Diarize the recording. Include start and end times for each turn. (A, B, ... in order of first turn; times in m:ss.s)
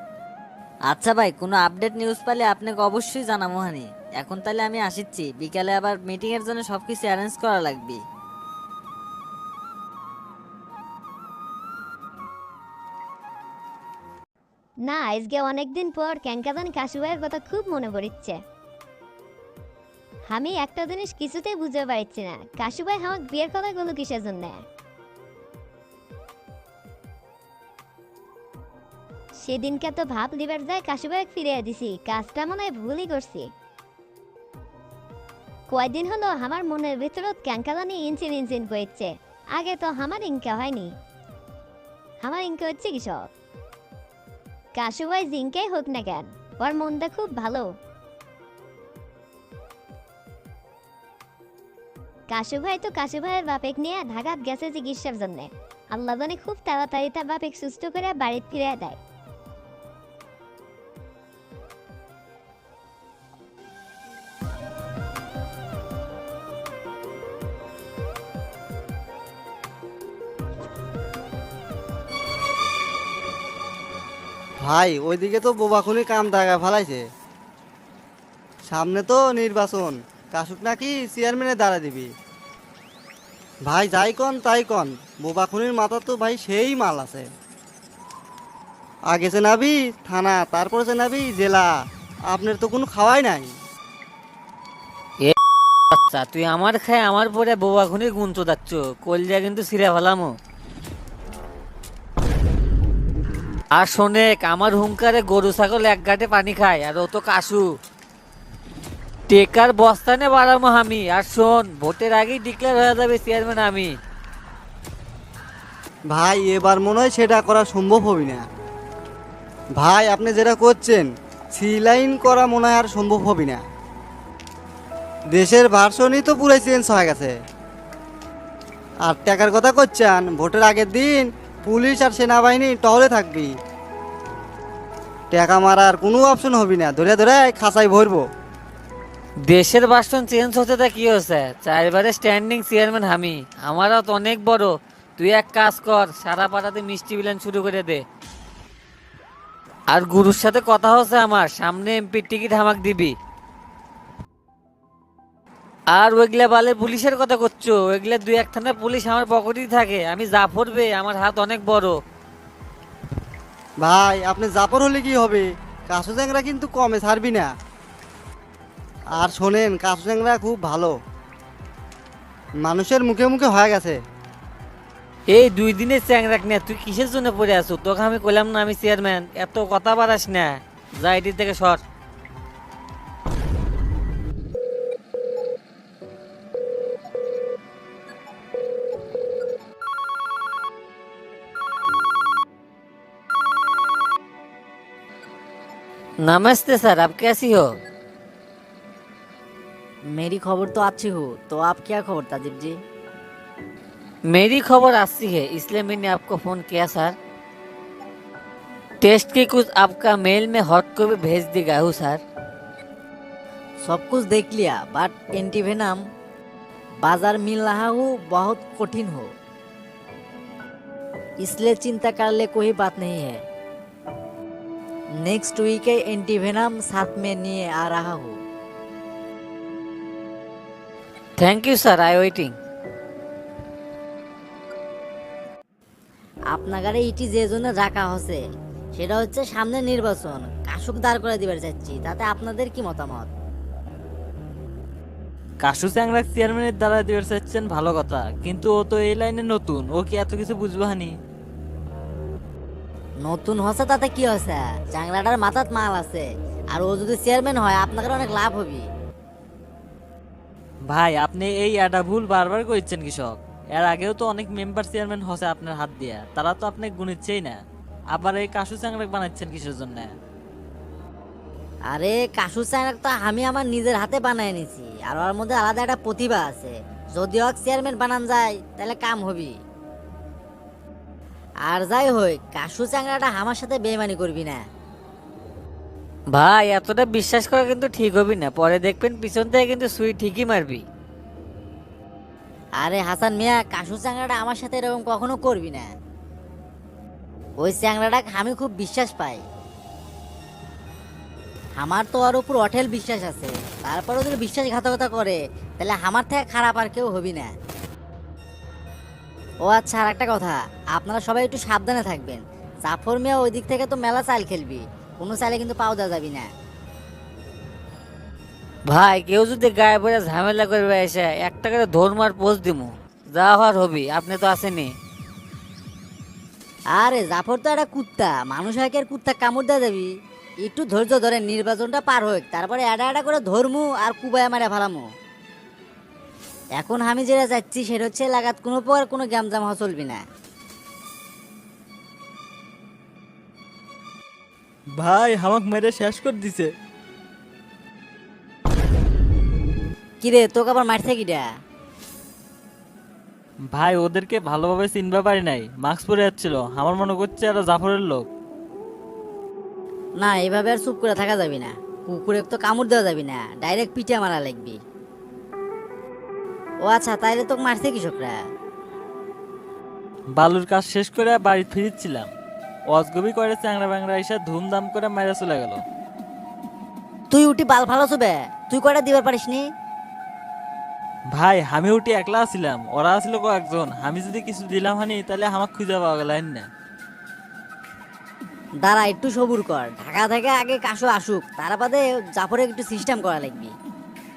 0:00.9-0:08.0 A
0:14.9-0:18.4 B
0:20.3-0:24.6 B
0:29.4-0:33.5 B
0:35.7-0:40.9 B
0:42.2-0:43.3 B
0:44.8-0:47.7 B
0:52.3-0:59.0 B
1:14.6-1:17.0 C
1:18.7-1:22.1 C
1:23.7-1:27.3 C
1:29.1-1:31.7 C
1:32.3-1:33.5 C
1:35.9-1:40.3 D
1:43.8-1:47.7 D
1:49.3-1:53.9 D
1:56.1-1:58.4 C
1:59.8-2:03.6 C
2:05.3-2:07.3 C
2:09.1-2:13.5 C
2:15.3-2:18.2 C
2:19.5-2:28.0 D
2:29.9-2:33.2 D
2:35.9-2:42.0 D
2:43.8-2:47.5 C
2:49.2-2:51.0 C
2:52.6-2:54.0 C
2:55.3-3:01.8 D
3:16.2-3:17.7 D
3:20.1-3:22.8 E
3:24.3-3:27.2 D
3:29.0-3:32.2 D
3:33.9-3:36.0 E
3:37.0-3:39.3 E
3:41.4-3:43.4 E
3:45.2-3:48.4 E
3:51.4-3:52.6 D
3:56.5-3:58.4 E
3:59.0-4:03.3 E
4:05.6-4:11.2 F
4:13.2-4:18.9 E
4:20.9-4:27.6 F
4:28.1-4:30.1 F
4:31.9-4:39.5 E
4:41.7-4:44.6 E
4:46.3-4:50.8 D
4:52.8-4:55.8 E
4:57.6-4:59.4 E
5:01.8-5:07.5 E
5:09.7-5:16.5 E
5:18.9-5:24.9 D
5:27.0-5:30.1 E
5:30.7-5:35.0 E
5:36.8-5:40.2 E
5:45.0-5:46.7 F
5:50.2-5:51.4 E
5:53.7-5:58.3 F
6:00.2-6:04.8 E
6:06.9-6:08.4 E
6:10.4-6:12.3 F
6:12.9-6:15.8 F
6:17.3-6:19.6 E
6:21.3-6:26.7 F
6:28.8-6:33.7 E